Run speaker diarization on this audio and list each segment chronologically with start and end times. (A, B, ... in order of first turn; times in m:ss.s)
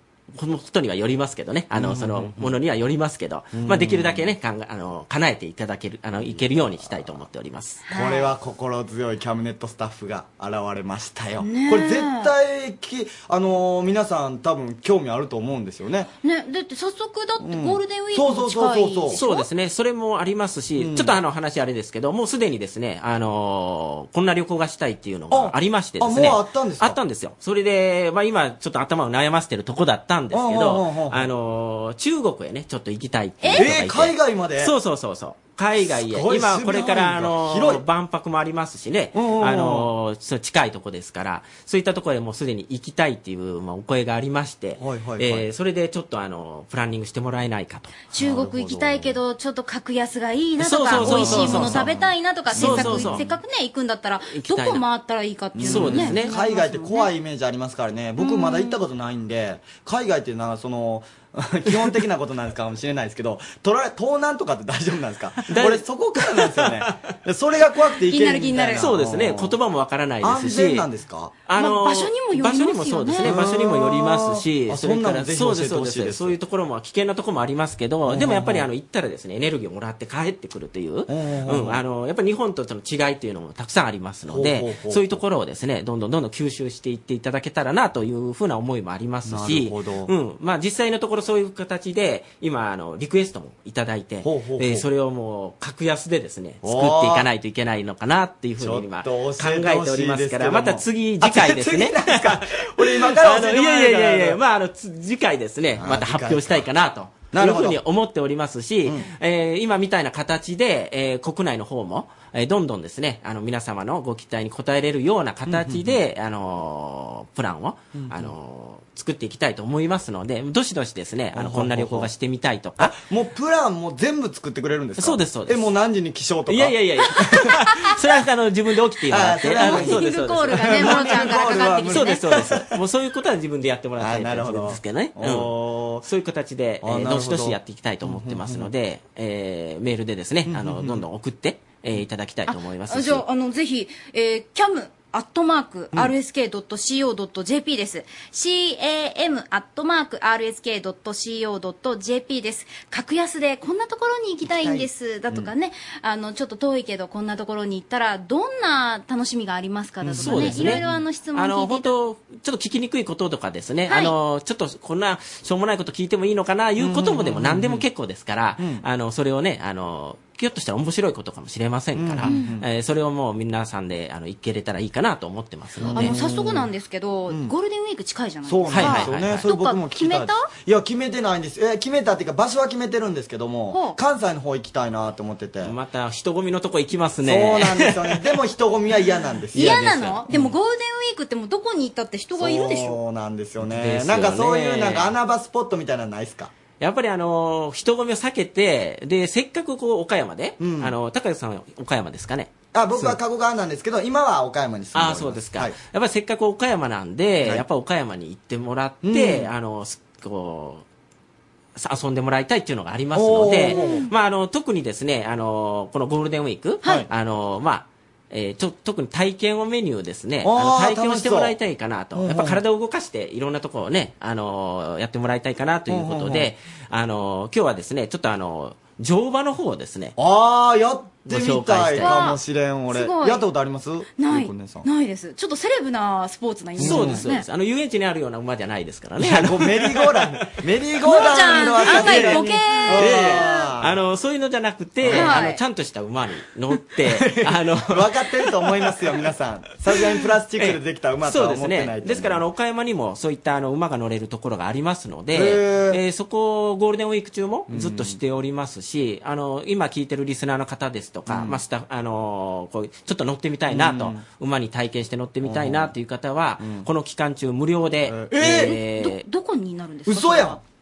0:00.3-0:07.8 A
0:01.7-0:02.6 B
0:03.5-0:04.3 B
0:06.2-0:07.0 B
0:07.9-0:08.3 C
0:07.9-0:16.1 B
0:11.4-0:12.3 C
0:16.2-0:19.5 C
0:17.4-0:19.2 B
0:19.1-0:48.0 A
0:20.8-0:21.2 B
0:25.3-0:27.0 B
0:30.3-0:31.3 B
0:33.4-0:33.7 C
0:33.5-0:34.7 B
0:35.8-0:37.8 B
0:39.1-0:39.9 B
0:44.8-0:45.5 B
0:48.1-0:49.2 B
0:48.1-0:57.1 C
0:50.6-0:51.9 A
0:50.9-0:53.3 B
0:52.5-0:53.3 A
0:54.3-0:54.8 A
0:55.5-1:09.6 B
0:55.6-0:56.3 A
0:58.2-0:58.8 C
1:05.5-1:07.0 A
1:08.1-1:08.9 C
1:08.8-1:10.9 A
1:10.2-1:11.4 B
1:11.4-2:02.9 A
1:11.6-1:13.3 C
1:13.2-1:16.4 B
1:18.1-1:18.7 B
1:21.1-1:21.8 B
1:24.3-1:25.2 B
1:29.2-1:30.1 B
1:34.2-1:34.9 B
1:36.6-1:37.3 B
1:38.6-1:44.4 B
1:45.8-1:46.7 B
1:47.3-1:47.8 B
1:55.4-1:56.0 B
1:57.9-1:58.3 B
2:01.3-2:02.1 B
2:02.8-2:07.6 B
2:05.0-2:05.7 A
2:06.5-2:23.2 A
2:09.1-2:12.6 B
2:09.6-2:12.2 C
2:14.0-2:16.0 B
2:16.8-2:18.7 B
2:20.4-2:21.0 B
2:22.5-2:41.9 C
2:34.4-2:35.5 B
2:40.0-2:41.0 B
2:40.2-2:56.2 A
2:43.9-2:44.1 C
2:46.8-2:47.8 B
2:48.6-2:48.8 B
2:51.9-2:52.7 B
2:52.2-2:52.5 C
2:55.8-2:56.7 B
2:55.9-3:00.5 C
2:58.4-3:05.7 B
2:58.7-2:59.4 A
3:03.7-3:04.0 C
3:05.6-3:08.3 A
3:07.2-3:10.5 B
3:09.5-3:13.0 C
3:09.6-3:10.1 A
3:12.4-3:16.5 B
3:13.6-3:15.1 A
3:16.8-3:23.2 A
3:20.6-3:20.9 B
3:22.7-3:25.7 B
3:24.9-3:30.8 A
3:29.0-3:29.5 B
3:31.8-3:50.1 A
3:33.1-3:34.0 B
3:33.7-3:34.1 C
3:40.4-3:41.5 B
3:42.1-3:42.6 B
3:45.9-3:46.5 B
3:50.2-3:54.9 B
3:51.3-3:52.2 A
3:52.0-3:52.4 C
3:52.9-3:53.4 C
3:54.2-3:57.4 C
3:56.8-3:57.2 B
3:56.8-4:00.4 A
3:59.2-4:04.0 B
4:01.0-4:03.6 C
4:01.2-4:08.2 A
4:05.0-4:05.4 B
4:05.1-4:05.6 C
4:07.0-4:12.4 B
4:10.6-4:29.2 A
4:15.3-4:16.0 B
4:17.7-4:18.2 B
4:21.3-4:21.6 B
4:23.7-4:24.2 B
4:25.4-4:25.9 B
4:26.6-4:26.9 B
4:28.0-4:28.8 B
4:28.4-4:30.6 C
4:30.1-4:30.6 B